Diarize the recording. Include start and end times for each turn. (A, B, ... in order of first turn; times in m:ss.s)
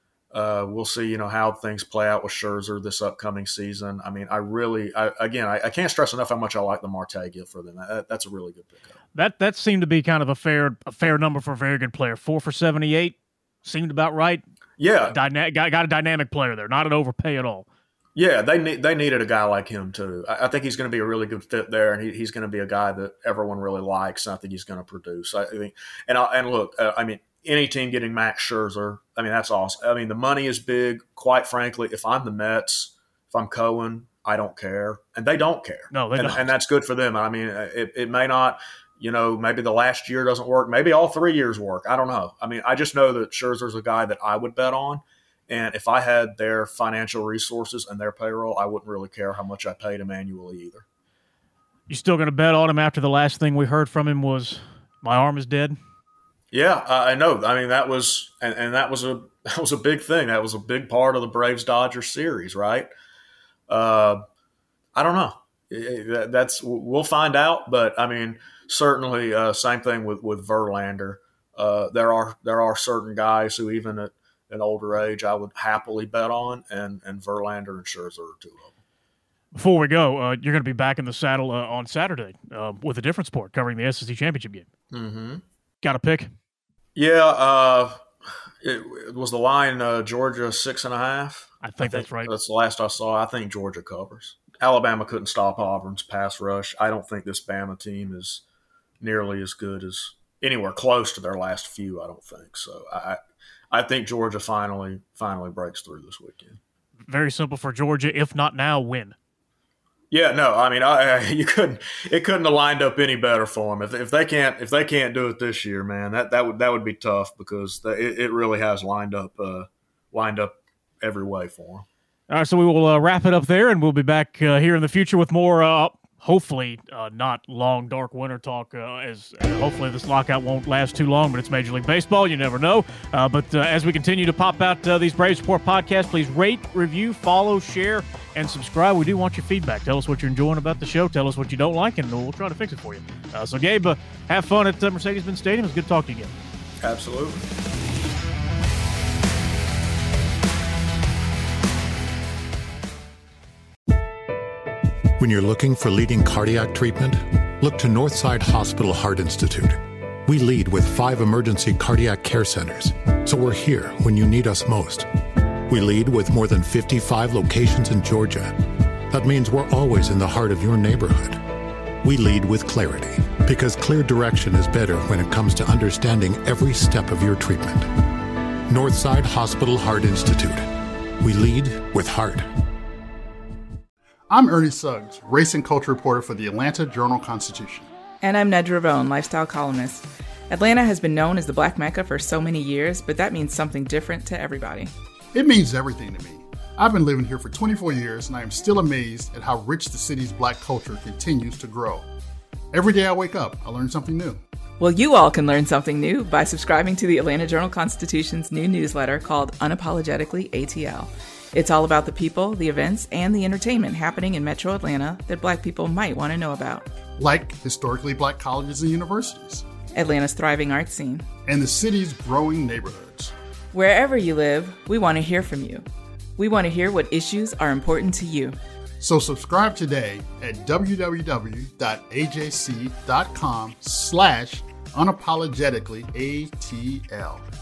0:00.3-0:08.9 A
0:09.1-0:14.4 B
0:14.8-0:15.2 A
0:15.1-0:17.6 B
0:18.2-0:50.8 A
0:35.9-0:36.5 B
0:51.9-0:55.8 B
0:56.5-1:02.9 A
1:03.7-1:04.2 A
1:04.9-1:18.7 A
1:19.5-1:24.7 B
1:24.9-1:25.4 A
1:25.8-1:26.3 B
1:27.0-1:28.0 A
1:28.6-1:38.4 A
1:31.6-1:32.3 B
1:39.0-1:43.2 A
1:43.7-1:46.6 A
1:47.0-1:49.2 B
1:50.1-2:01.8 A
2:02.3-2:26.3 B
2:26.8-2:27.4 A
2:35.2-2:45.1 C
2:45.7-2:48.6 C
2:49.1-2:51.4 C
2:52.0-2:57.9 C
2:58.7-3:00.7 C
3:01.2-3:02.4 C
3:04.3-3:07.9 D
3:08.2-3:14.9 E
3:15.3-3:22.0 D
3:22.7-3:24.4 D
3:24.8-3:36.9 E
3:37.2-3:39.6 D
3:39.9-3:41.2 E
3:41.4-3:43.3 D
3:43.7-3:45.8 E
3:46.4-3:48.6 E
3:49.0-3:57.4 D